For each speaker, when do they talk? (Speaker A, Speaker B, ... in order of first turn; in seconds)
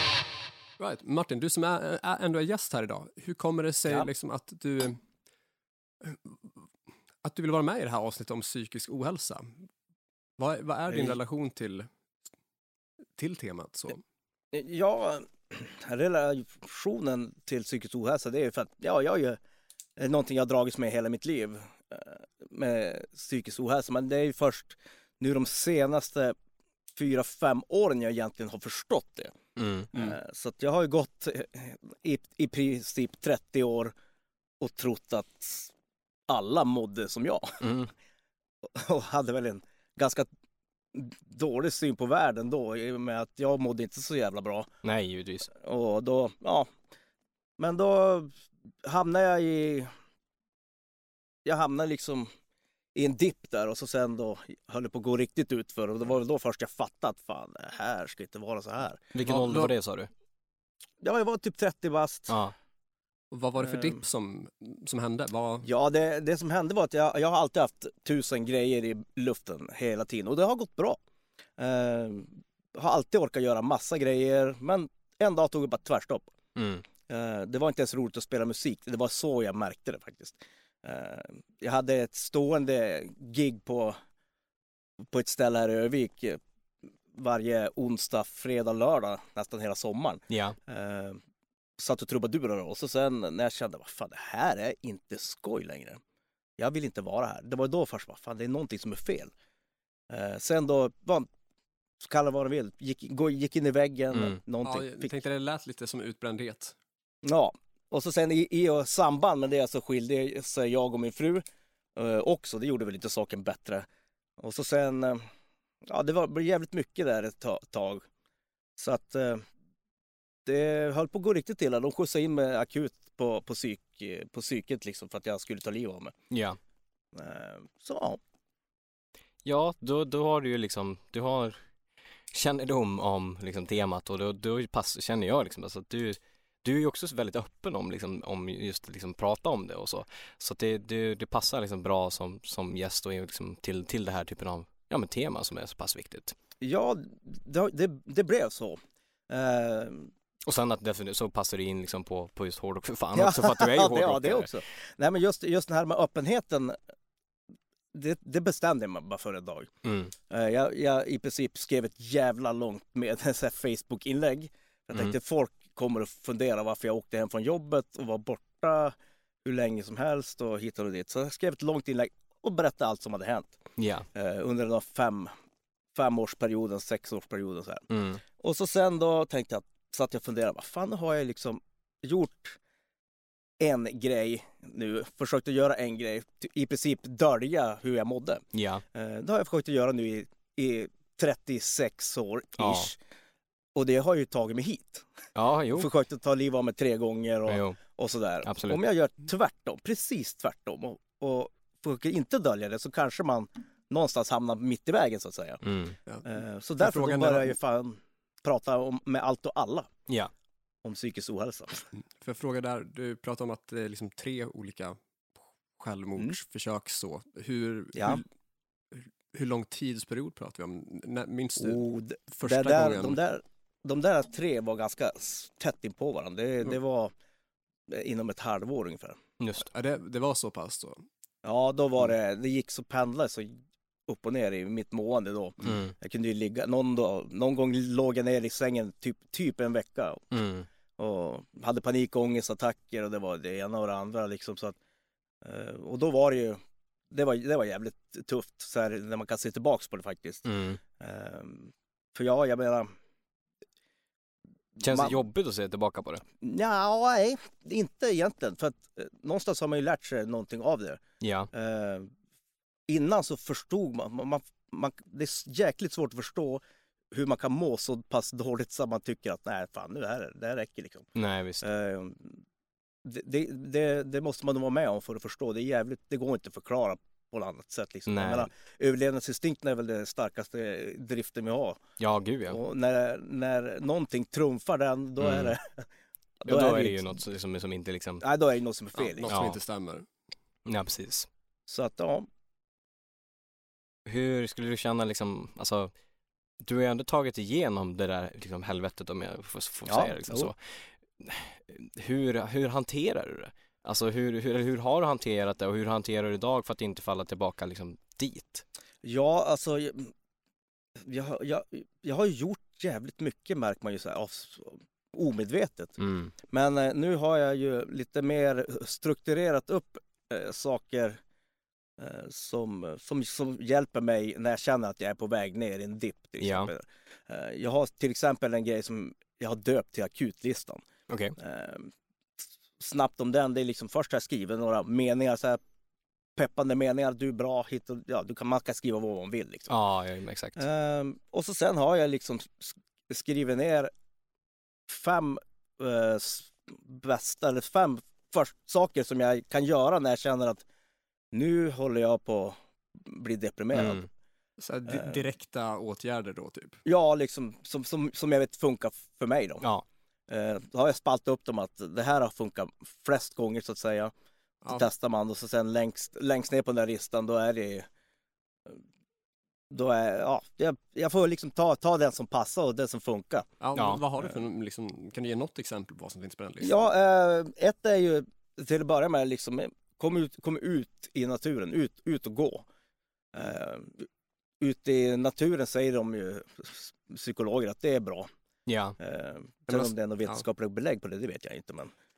Speaker A: 0.8-5.0, 6.0-6.6, 7.2-9.6, 10.4-11.9, 13.2-14.0, 59.2-59.7, 63.3-65.7, 104.6-106.8, 206.8-207.6, 212.2-215.0, 215.8-218.2, 218.9-221.8, 222.3-223.2, 229.7-231.0, 289.0-290.1, 354.6-356.8, 373.6-376.9, 389.7-390.4
Speaker B: 14.5-19.4, 20.0-26.4, 27.0-29.4, 29.9-33.9, 34.6-35.7, 36.3-37.6, 38.6-40.3, 40.9-44.7, 45.5-46.7, 47.6-48.3, 48.8-49.9, 51.5-52.3, 53.0-59.0, 61.0-62.4, 63.6-64.0, 65.6-71.0, 71.6-76.3, 77.1-84.0, 85.1-86.4, 87.1-91.2, 91.8-96.0, 96.6-99.3, 100.1-101.3, 102.0-105.1, 107.2-111.5, 112.0-113.9, 114.4-115.3, 115.9-118.0, 118.8-119.5, 120.5-126.1, 127.1-128.2, 146.6-150.1, 153.2-156.8, 157.9-159.7, 160.3-168.9, 169.4-173.6, 174.2-175.3, 175.9-177.9, 178.4-182.6, 183.6-188.4, 188.9-193.0, 193.8-195.1, 195.8-205.6, 206.2-209.9, 210.8-211.9, 217.9-218.2, 221.6-227.1, 227.9-229.2, 231.4-233.6, 234.1-240.2, 241.0-244.8, 245.4-246.6, 247.1-250.4, 251.0-252.9, 254.8-255.2, 256.4-261.0, 261.5-262.1, 262.9-271.1, 271.6-272.4, 273.1-281.8, 282.5-285.9, 286.4-287.2, 288.2-289.4, 291.7-292.3, 299.9-300.5, 309.0-310.1, 311.0-316.0, 316.5-321.2, 322.0-330.8, 331.4-331.9, 332.8-335.6, 336.4-339.7, 340.6-343.9, 344.9-350.6, 351.3-354.0, 354.9-355.2, 356.9-359.6, 360.3-364.1, 364.7-367.9, 369.7-373.5, 376.6-382.7, 383.3-384.1, 384.6-388.3, 389.0-391.9
Speaker C: 29.6-29.9, 37.6-37.9, 44.8-45.5, 59.1-60.1, 62.3-62.5, 76.6-76.8, 90.3-90.6, 104.1-104.4, 126.3-126.6, 129.4-131.6, 132.3-146.4, 150.5-154.5, 159.8-160.1, 173.8-174.1, 177.9-178.2, 188.5-188.8, 192.6-192.9, 195.3-195.9, 197.5-197.8, 198.4-198.8, 205.6-206.0, 229.4-229.7, 235.6-235.9, 240.3-240.7, 250.4-250.8, 254.8-256.2, 261.2-261.5, 271.1-271.6, 278.1-278.5, 282.0-282.6, 285.2-285.6, 286.4-288.2, 289.3-289.6, 290.7-291.3, 294.1-295.9, 296.6-300.6, 301.2-308.6, 316.0-316.3, 326.4-326.7, 331.1-331.4, 339.7-340.6, 353.7-354.1, 373.8-374.0, 388.7-389.0